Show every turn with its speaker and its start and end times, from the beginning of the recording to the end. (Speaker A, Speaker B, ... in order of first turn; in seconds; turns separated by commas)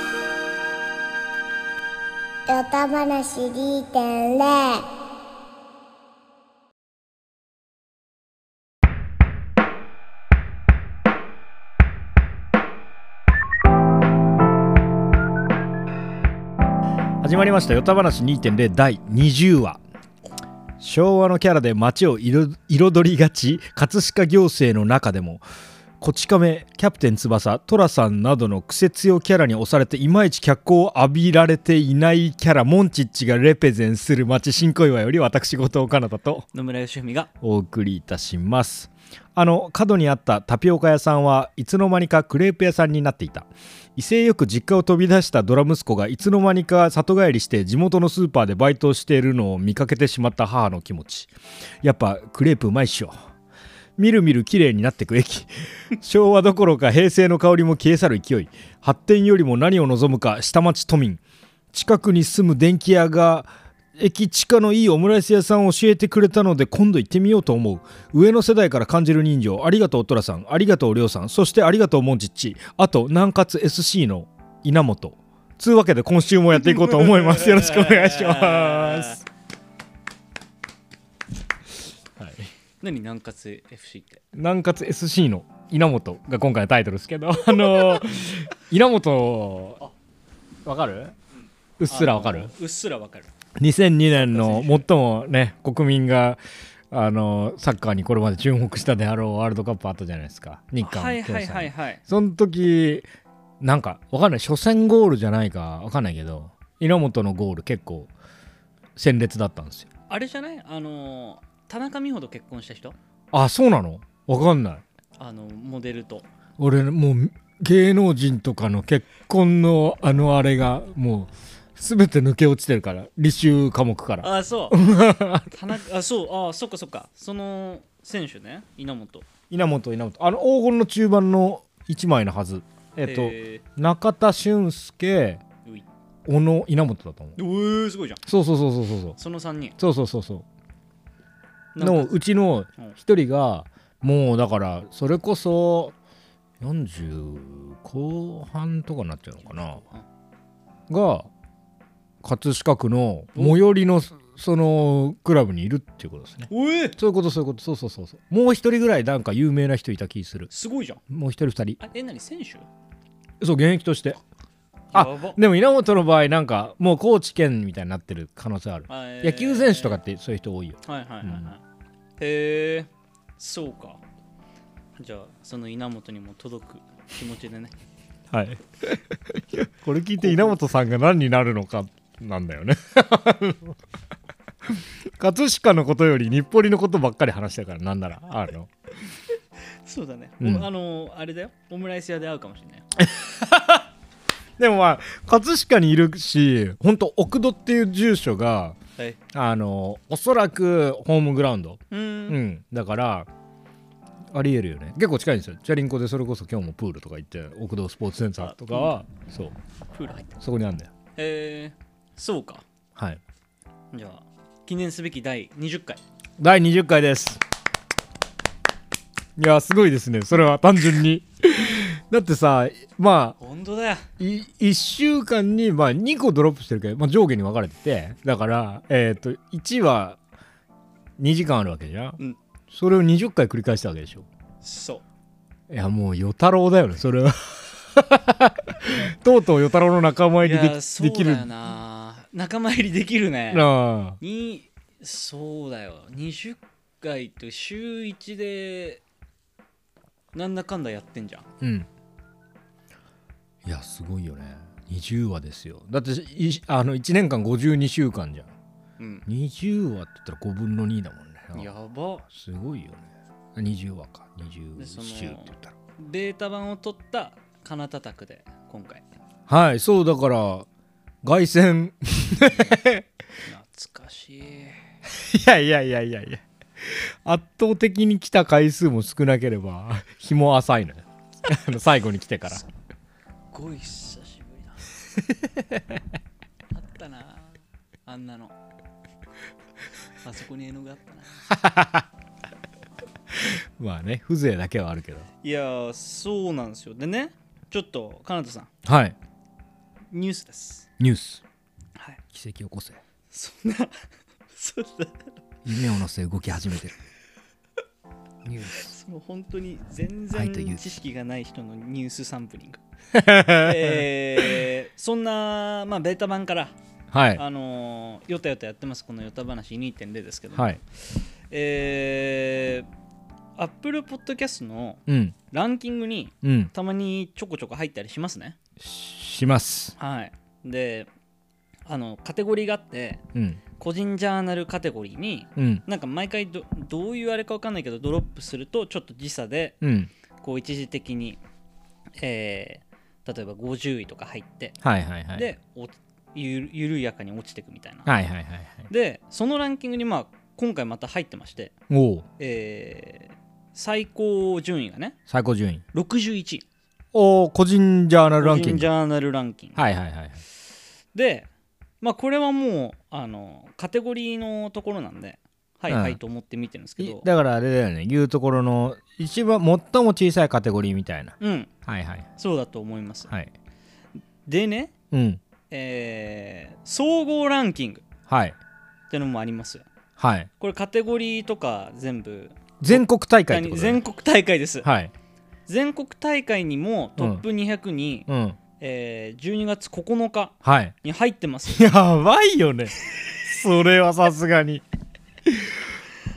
Speaker A: 2.5-4.8, Speaker B: 17.2-19.8, Speaker B: 20.8-25.4, Speaker B: 26.0-36.5, Speaker C: 36.5-37.3, Speaker B: 37.4-51.3, Speaker B: 51.8-53.1, Speaker B: 54.0-61.2, Speaker B: 61.7-79.2, Speaker C: 76.6-79.2, Speaker B: 82.2-82.5, Speaker C: 82.8-84.2, Speaker B: 84.3-89.8, Speaker B: 90.6-91.1, Speaker B: 91.8-92.5, Speaker C: 91.9-93.3, Speaker B: 93.6-96.4, Speaker C: 94.1-94.8, Speaker B: 96.9-103.0, Speaker C: 100.8-102.0, Speaker B: 103.6-108.1, Speaker B: 109.0-109.9, Speaker C: 110.1-113.0, Speaker B: 113.3-114.8, Speaker C: 115.2-116.2, Speaker B: 116.6-125.5, Speaker C: 124.2-124.8, Speaker C: 125.5-129.3, Speaker B: 129.5-135.4, Speaker C: 133.0-133.6, Speaker B: 136.2-137.4, Speaker C: 137.4-138.2, Speaker B: 138.2-139.2, Speaker C: 139.2-139.8, Speaker B: 139.8-140.4, Speaker C: 141.7-142.2, Speaker B: 141.8-145.9, Speaker B: 146.6-149.8, Speaker C: 149.4-150.0, Speaker B: 150.9-151.3, Speaker B: 152.2-160.5, Speaker C: 153.3-153.6, Speaker C: 156.5-157.0, Speaker C: 160.5-161.0, Speaker B: 161.1-161.8, Speaker C: 161.8-162.7, Speaker B: 163.4-164.2, Speaker C: 164.9-165.4, Speaker B: 164.9-171.4, Speaker C: 168.9-170.0, Speaker C: 170.8-171.6, Speaker C: 172.2-174.0, Speaker C: 175.0-177.7, Speaker B: 178.3-183.8, Speaker C: 180.2-180.6, Speaker B: 184.7-188.7, Speaker C: 189.8-192.8, Speaker B: 190.4-190.7, Speaker B: 193.0-193.9, Speaker B: 194.6-198.8, Speaker B: 199.3-203.3, Speaker C: 201.9-202.4, Speaker B: 204.3-209.5, Speaker C: 208.4-208.9, Speaker C: 209.9-210.4, Speaker B: 210.4-210.9, Speaker C: 211.2-212.6, Speaker C: 213.9-216.0, Speaker B: 216.4-217.4, Speaker B: 219.4-223.4, Speaker C: 223.4-224.1, Speaker B: 224.2-230.2, Speaker B: 231.2-232.2, Speaker B: 232.7-234.3, Speaker C: 234.6-235.0, Speaker B: 235.7-241.4, Speaker C: 240.4-249.0, Speaker B: 243.5-244.2, Speaker C: 250.3-251.5, Speaker B: 251.6-251.9, Speaker B: 253.6-258.5, Speaker C: 259.0-259.2, Speaker B: 259.2-261.7, Speaker C: 261.5-262.2, Speaker B: 262.3-265.7, Speaker C: 264.8-269.0, Speaker B: 269.5-270.6, Speaker B: 271.2-273.0, Speaker C: 272.4-272.8, Speaker C: 273.4-274.8, Speaker B: 275.1-282.6, Speaker C: 283.5-284.9, Speaker B: 285.6-285.9, Speaker C: 286.7-288.6, Speaker C: 290.2-291.3, Speaker B: 291.5-292.1, Speaker B: 293.3-295.2, Speaker C: 295.4-298.7, Speaker B: 298.8-299.1, Speaker C: 300.1-300.9, Speaker B: 301.0-301.4, Speaker C: 301.9-302.2, Speaker B: 302.3-303.0, Speaker C: 303.3-303.9, Speaker C: 304.5-305.2, Speaker B: 305.6-306.9, Speaker B: 308.4-308.9, Speaker C: 308.8-312.8, Speaker B: 310.3-310.9, Speaker B: 313.1-314.0, Speaker C: 313.5-316.7, Speaker B: 317.1-317.4, Speaker C: 317.3-320.8, Speaker B: 320.5-320.8, Speaker C: 321.5-322.9, Speaker C: 323.6-328.6, Speaker B: 325.1-325.4, Speaker B: 326.4-326.7, Speaker B: 328.8-329.9, Speaker C: 330.0-331.1, Speaker C: 331.9-333.2, Speaker B: 333.3-333.6, Speaker C: 333.8-339.8, Speaker B: 335.6-335.8, Speaker B: 339.8-340.1, Speaker C: 340.4-341.4, Speaker C: 342.2-344.8, Speaker B: 344.8-345.4, Speaker C: 345.3-348.1, Speaker B: 348.1-348.9, Speaker C: 348.9-351.7, Speaker B: 351.9-352.2, Speaker C: 352.4-355.2, Speaker B: 355.3-355.8, Speaker C: 355.9-356.6, Speaker B: 357.1-358.9, Speaker C: 358.4-359.8, Speaker B: 359.8-360.4, Speaker C: 361.1-361.5, Speaker C: 362.0-367.3, Speaker B: 365.9-366.2, Speaker B: 367.0-372.2, Speaker C: 371.4-371.7, Speaker C: 372.4-373.3, Speaker C: 374.4-374.9, Speaker B: 375.1-375.4, Speaker C: 375.7-378.0, Speaker B: 378.3-378.6, Speaker C: 379.1-379.9, Speaker B: 380.2-380.5, Speaker C: 380.6-384.9, Speaker B: 382.8-384.0, Speaker B: 384.8-385.1, Speaker C: 385.7-388.3, Speaker B: 387.2-387.4, Speaker B: 388.3-388.6, Speaker C: 388.8-391.9, Speaker B: 390.6-390.9, Speaker B: 391.7-394.8, Speaker B: 395.4-395.7